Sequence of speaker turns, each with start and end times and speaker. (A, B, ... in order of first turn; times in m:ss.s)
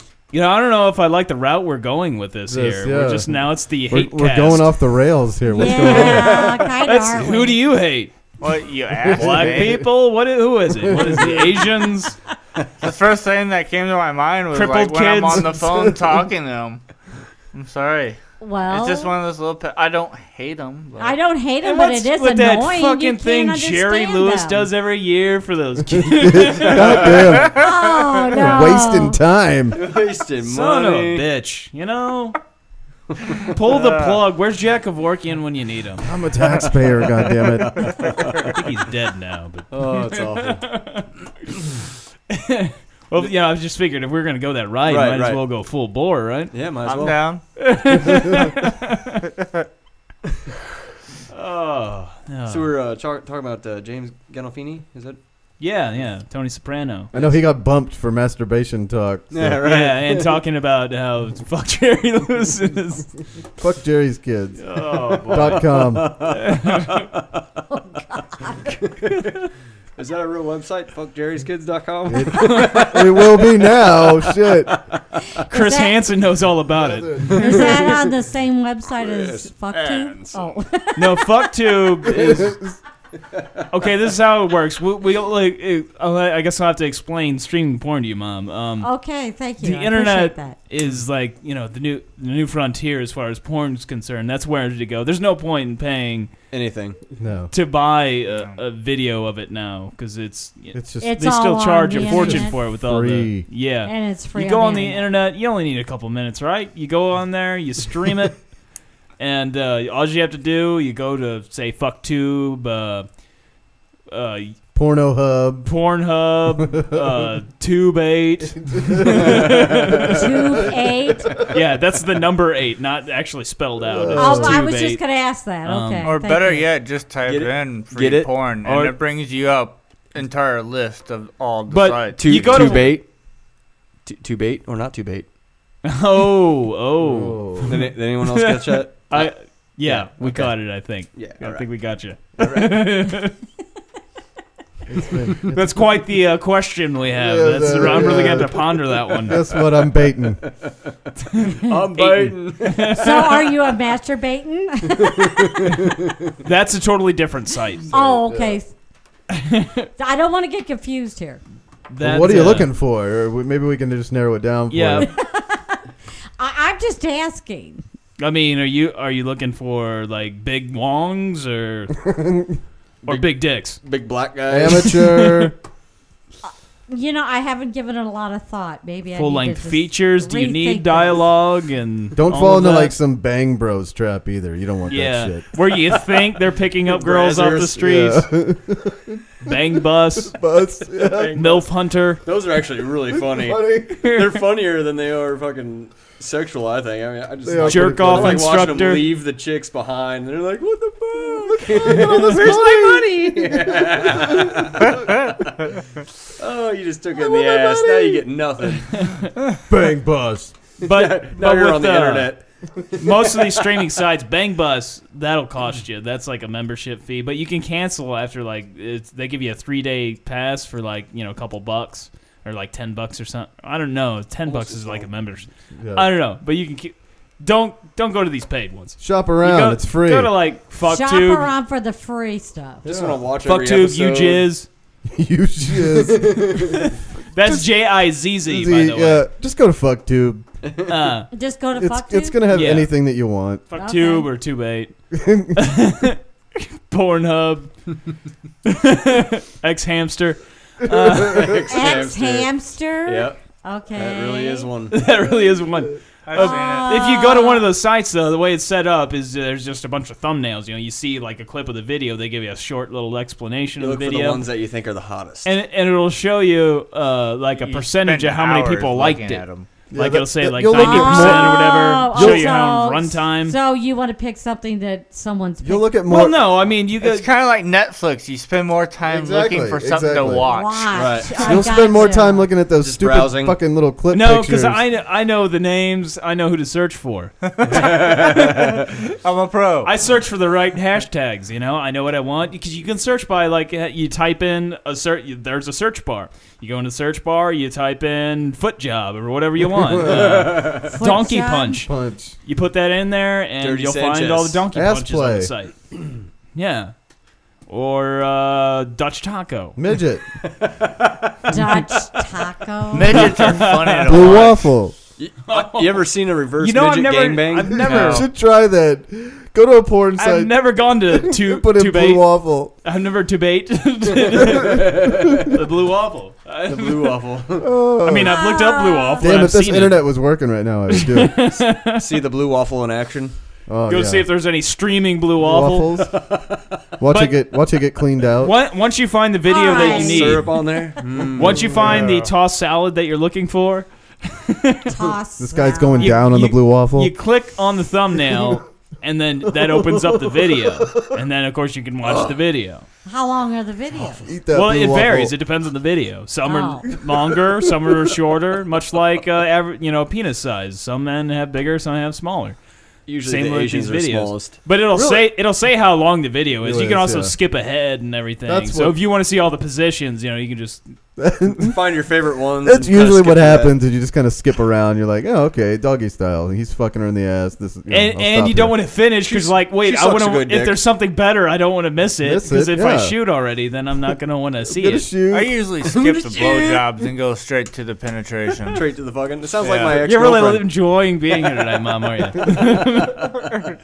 0:00.3-0:04.7 A
0:02.5-0:06.5 B
0:05.5-0:07.6 C
0:05.9-0:08.1 A
0:06.2-0:06.5 D
0:08.4-0:09.8 E
0:09.1-0:09.9 B
0:09.1-0:12.2 A
0:10.8-0:11.4 B
0:12.8-0:16.8 E
0:14.5-0:15.5 A
0:15.5-0:16.2 B
0:17.5-0:21.2 E
0:18.4-0:19.1 C
0:21.0-0:24.7 C
0:21.6-0:27.2 A
0:26.0-0:27.7 B
0:26.8-0:27.3 D
0:27.5-0:29.2 C
0:28.3-0:29.8 B
0:29.7-0:31.3 D
0:30.4-0:32.4 A
0:33.5-0:36.0 A
0:33.7-0:34.0 E
0:36.0-0:38.0 B
0:37.6-0:38.5 D
0:38.5-0:41.5 A
0:39.7-0:40.6 D
0:42.3-0:46.6 A
0:44.9-0:45.4 D
0:46.5-0:47.4 D
0:46.8-0:47.4 E
0:47.6-0:49.2 A
0:51.3-0:52.7 A
0:52.5-0:55.2 D
0:55.6-0:57.1 A
0:57.1-0:57.4 D
0:57.1-0:59.6 B
0:59.3-1:00.4 D
0:59.6-1:03.1 A
1:03.6-1:04.6 B
1:04.6-1:06.5 D
1:04.7-1:05.7 A
1:05.3-1:06.2 B
1:06.4-1:07.0 A
1:08.9-1:09.3 D
1:10.0-1:15.0 D
1:12.1-1:14.7 B
1:15.5-1:16.0 C
1:15.5-1:17.5 A
1:16.8-1:17.9 B
1:17.4-1:21.5 C
1:17.4-1:17.8 D
1:19.0-1:20.5 D
1:21.0-1:22.5 A
1:22.1-1:22.8 B
1:23.7-1:28.9 A
1:28.8-1:30.6 C
1:29.6-1:36.3 A
1:36.5-1:37.0 D
1:37.2-1:37.5 B
1:37.5-1:48.4 A
1:40.7-1:41.2 B
1:41.0-1:42.6 C
1:41.9-1:43.5 B
1:43.8-1:45.1 C
1:49.2-1:53.1 A
1:54.1-1:54.6 A
1:54.7-1:55.7 B
1:55.6-2:00.3 A
1:58.8-1:59.4 B
2:00.1-2:01.3 C
2:01.5-2:05.0 A
2:03.9-2:04.6 B
2:04.2-2:06.7 C
2:05.6-2:06.2 A
2:06.0-2:12.8 E
2:07.2-2:08.3 D
2:08.6-2:09.0 A
2:11.7-2:13.0 A
2:12.2-2:13.1 D
2:14.0-2:15.3 D
2:15.8-2:23.4 A
2:17.0-2:17.9 B
2:17.6-2:19.3 D
2:19.8-2:21.7 D
2:24.9-2:25.7 B
2:25.4-2:29.4 A
2:27.1-2:30.4 B
2:31.4-2:33.4 A
2:31.6-2:33.2 D
2:32.9-2:35.6 C
2:36.4-2:37.9 A
2:37.9-2:38.7 C
2:38.0-2:38.6 B
2:39.3-2:39.9 A
2:40.0-2:41.4 C
2:41.9-2:42.7 A
2:42.0-2:45.1 B
2:44.7-2:45.1 A
2:45.0-2:45.8 C
2:46.4-2:47.8 C
2:48.2-2:52.0 A
2:52.2-2:52.5 B
2:53.0-2:55.0 D
2:53.1-2:53.8 A
2:54.5-2:55.6 B
2:54.7-2:55.5 A
2:56.9-3:01.2 C
2:59.2-3:03.0 A
3:02.2-3:05.4 B
3:04.9-3:08.3 A
3:06.9-3:07.8 D
3:07.8-3:09.2 B
3:09.4-3:10.4 A
3:10.2-3:11.4 B
3:11.0-3:11.7 D
3:11.4-3:12.2 A
3:12.2-3:25.5 D
3:13.2-3:14.0 B
3:14.0-3:14.3 A
3:17.4-3:18.6 B
3:17.6-3:19.2 A
3:21.2-3:24.9 B
3:26.4-3:29.1 D
3:27.2-3:28.2 B
3:28.9-3:29.3 A
3:29.7-3:30.5 B
3:30.8-3:32.4 A
3:30.8-3:33.7 D
3:33.0-3:51.5 A
3:44.5-3:45.1 D
3:45.8-3:46.1 B
3:49.0-3:50.3 B
3:50.8-3:52.8 C
3:52.8-3:54.5 D
3:52.9-3:53.2 B
3:53.4-3:54.7 A
3:55.1-3:56.8 B
3:56.2-3:56.7 D
3:56.8-3:59.3 A
3:57.4-3:57.7 B
3:58.5-4:00.5 B
4:00.9-4:01.3 A
4:01.3-4:02.4 C
4:01.8-4:03.6 B
4:02.5-4:02.9 A
4:03.7-4:05.0 A
4:03.8-4:04.3 C
4:05.1-4:05.6 B
4:05.5-4:07.8 A
4:08.7-4:11.6 A
4:11.0-4:11.4 B
4:11.2-4:13.4 D
4:11.7-4:14.7 C
4:13.9-4:15.0 D
4:14.9-4:24.4 A
4:16.3-4:16.9 E
4:16.4-4:17.7 C
4:23.8-4:25.5 D
4:25.4-4:33.6 A
4:27.6-4:29.7 E
4:29.9-4:32.5 B
4:30.7-4:35.9 C
4:35.6-4:36.5 B
4:36.1-4:37.3 A
4:37.0-4:40.9 E
4:39.1-4:40.6 B
4:40.4-4:42.5 C
4:40.9-4:41.5 D
4:41.4-4:44.8 B
4:42.8-4:43.6 D
4:44.1-4:48.8 A
4:47.6-4:48.5 E
4:47.7-4:48.8 D
4:49.2-4:49.9 E
4:49.8-5:01.9 A
5:00.0-5:00.3 B
5:00.1-5:01.0 D
5:00.9-5:01.8 C
5:01.8-5:02.4 B
5:02.4-5:05.8 A
5:03.6-5:04.7 D
5:04.7-5:05.5 B
5:06.5-5:06.9 A
5:07.7-5:09.8 A
5:09.8-5:10.2 B
5:10.6-5:11.3 D
5:11.5-5:13.3 C
5:12.9-5:14.6 E
5:13.1-5:14.4 A
5:14.1-5:15.0 B
5:15.2-5:17.9 D
5:15.5-5:18.3 A
5:17.8-5:18.3 E
5:17.8-5:22.8 B
5:20.2-5:27.2 A
5:24.7-5:25.4 D
5:26.7-5:27.8 D
5:27.6-5:28.4 B
5:28.0-5:30.2 A
5:28.2-5:29.2 C
5:29.2-5:31.4 B
5:30.9-5:32.1 A
5:31.8-5:33.4 D
5:33.7-5:34.3 B
5:33.9-5:35.9 A
5:35.4-5:36.1 B
5:36.1-5:36.6 D
5:37.0-5:38.6 B
5:37.1-5:37.4 A
5:38.4-5:40.7 A
5:39.5-5:40.4 C
5:39.7-5:41.9 D
5:41.4-5:44.9 A
5:41.4-5:42.1 B
5:41.9-5:42.3 E
5:44.9-5:46.2 C
5:45.4-5:47.1 B
5:46.0-5:52.8 A
5:52.0-5:52.3 D
5:53.1-5:54.2 C
5:54.3-5:55.3 B
5:54.5-6:02.6 A
5:56.4-5:56.8 C
6:03.1-6:04.6 D
6:03.2-6:10.9 A
6:04.9-6:05.3 B
6:06.6-6:07.3 B
6:08.5-6:09.0 B
6:11.2-6:11.8 B
6:11.6-6:13.8 D
6:12.6-6:18.8 B
6:17.9-6:25.1 A
6:19.2-6:20.8 D
6:22.2-6:23.2 B
6:24.7-6:25.6 B
6:25.3-6:28.9 E
6:26.1-6:26.8 D
6:28.7-6:30.7 D
6:29.6-6:30.0 E
6:29.9-6:33.3 A